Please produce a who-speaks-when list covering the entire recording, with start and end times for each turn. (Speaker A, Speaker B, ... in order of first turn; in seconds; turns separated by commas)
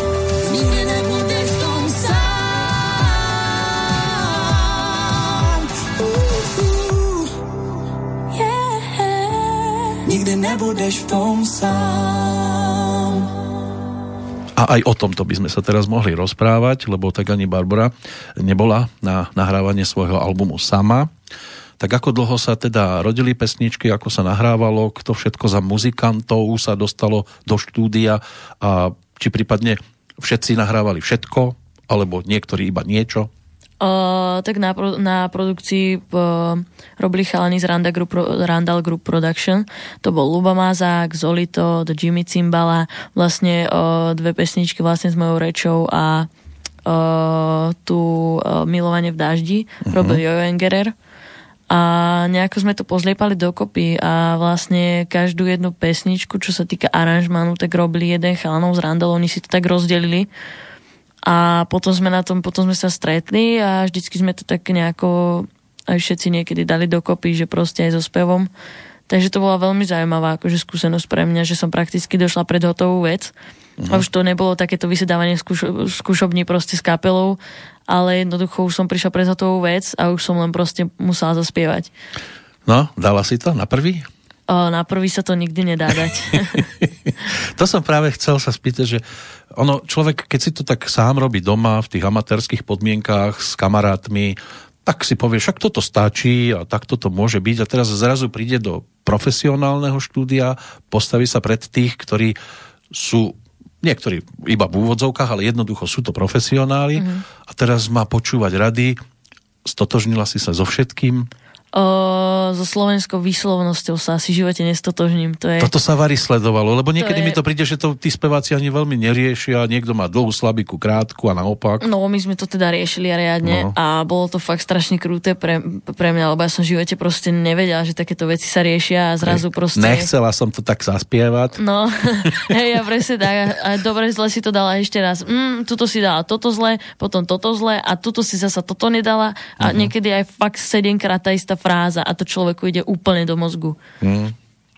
Speaker A: 0.4-7.3, Speaker B: 8.3-10.1, Speaker A: 10.1-13.3, Speaker C: 14.6-21.1, Speaker C: 21.8-33.3, Speaker B: 33.8-46.3, Speaker B: 46.9-50.9, Speaker C: 49.9-50.2, Speaker B: 51.7-60.3, Speaker B: 61.3-68.5, Speaker B: 69.1-73.3, Speaker C: 73.8-74.1, Speaker B: 73.9-81.9, Speaker C: 82.7-84.1, Speaker B: 84.5-86.7, Speaker C: 86.8-89.0, Speaker C: 89.5-102.4, Speaker C: 102.9-109.0, Speaker B: 107.0-107.2, Speaker C: 109.7-111.3, Speaker B: 111.7-115.7, Speaker C: 115.6-121.8, Speaker B: 117.0-117.4, Speaker B: 121.8-130.1, Speaker C: 123.4-123.8, Speaker C: 129.2-131.6, Speaker B: 131.6-143.8, Speaker C: 139.6-139.9, Speaker C: 144.0-144.3